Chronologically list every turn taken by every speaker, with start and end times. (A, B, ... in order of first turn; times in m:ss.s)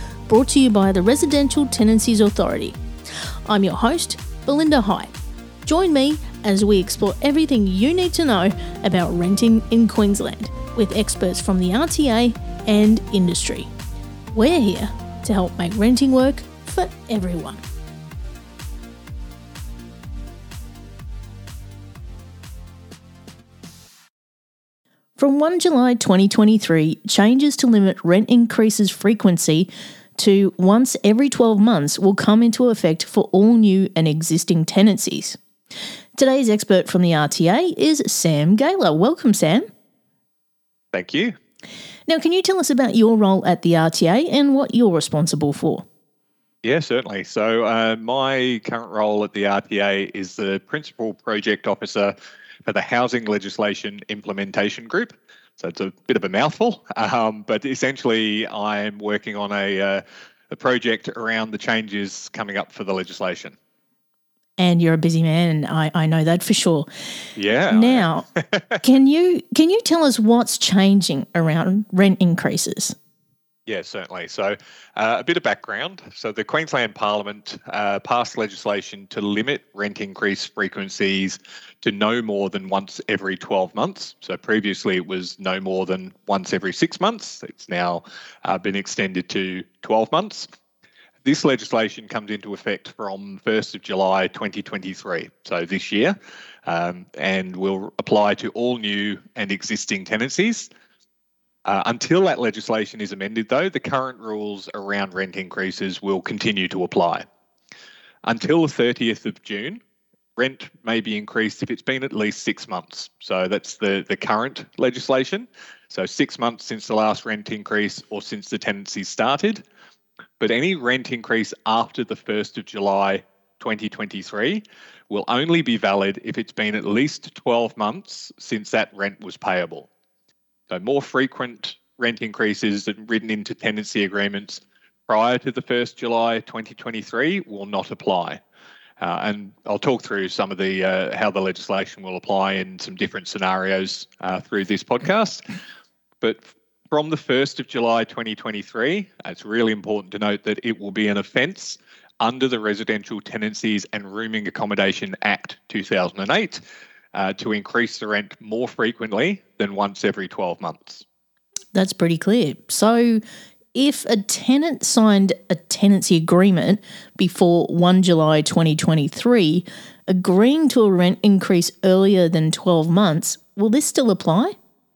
0:00.3-0:02.8 A
0:03.5-0:13.7 A
0:14.3-0:17.6 A
0:25.2-0:35.4 A
0:36.2-0:39.7 A
0:40.9-0:41.4 B
0:42.1-0:45.9 A
0:46.6-1:03.6 B
1:04.6-1:06.9 A
1:07.4-1:08.8 B
1:07.7-1:08.2 A
1:08.8-1:13.0 A
1:13.7-1:30.5 B
1:31.2-1:36.2 B
1:36.7-1:40.7 B
1:41.6-1:47.2 B
1:48.3-1:49.8 B
1:50.4-1:59.6 B
2:00.4-2:09.9 B
2:10.7-2:18.4 B
2:19.0-2:25.4 B
2:26.2-2:36.6 B
2:37.1-2:41.0 B
2:41.7-2:43.2 A
2:43.8-2:54.5 A